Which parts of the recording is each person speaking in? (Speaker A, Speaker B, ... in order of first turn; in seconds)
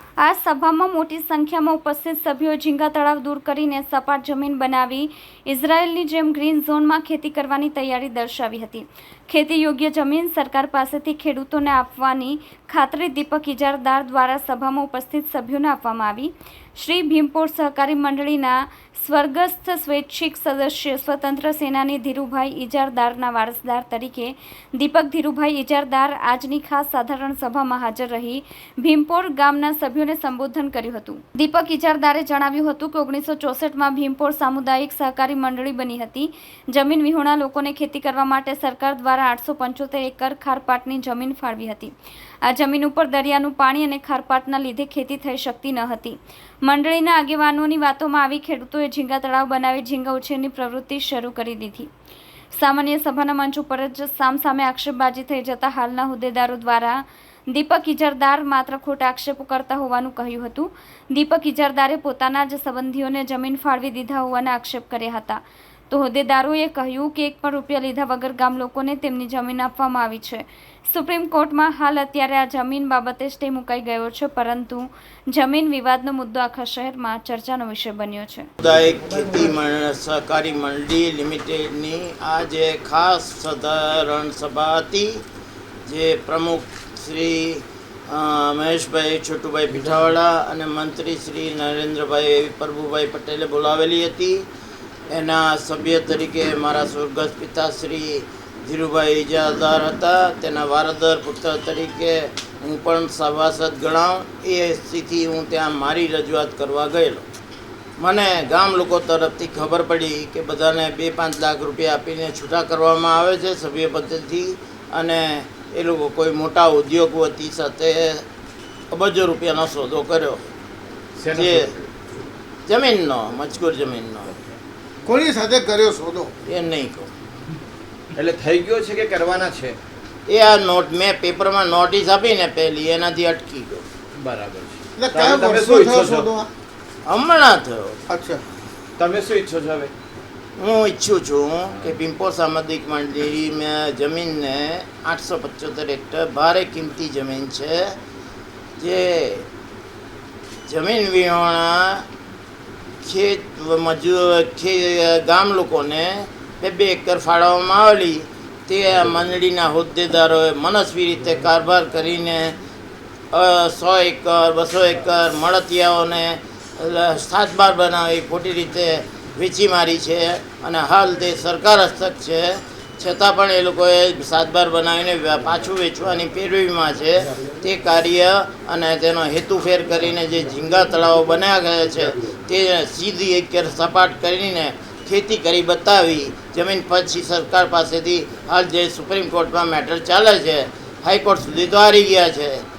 Speaker A: 0.2-41.9, 42.4-51.9, 52.5-78.5
Speaker B: 78.6-85.2, 85.8-94.4, 95.1-107.2, 108.0-118.2, 118.9-120.5, 121.3-121.7, 122.7-124.4, 126.4-127.1, 130.3-133.8, 137.0-138.0, 140.6-147.9, 148.8-149.4, 150.7-152.1, 153.0-162.5, 163.3-192.6
Speaker C: 121.2-121.8, 128.2-129.8, 134.2-136.3, 139.0-139.9
Speaker D: 125.0-126.3, 134.9-136.5, 138.1-138.4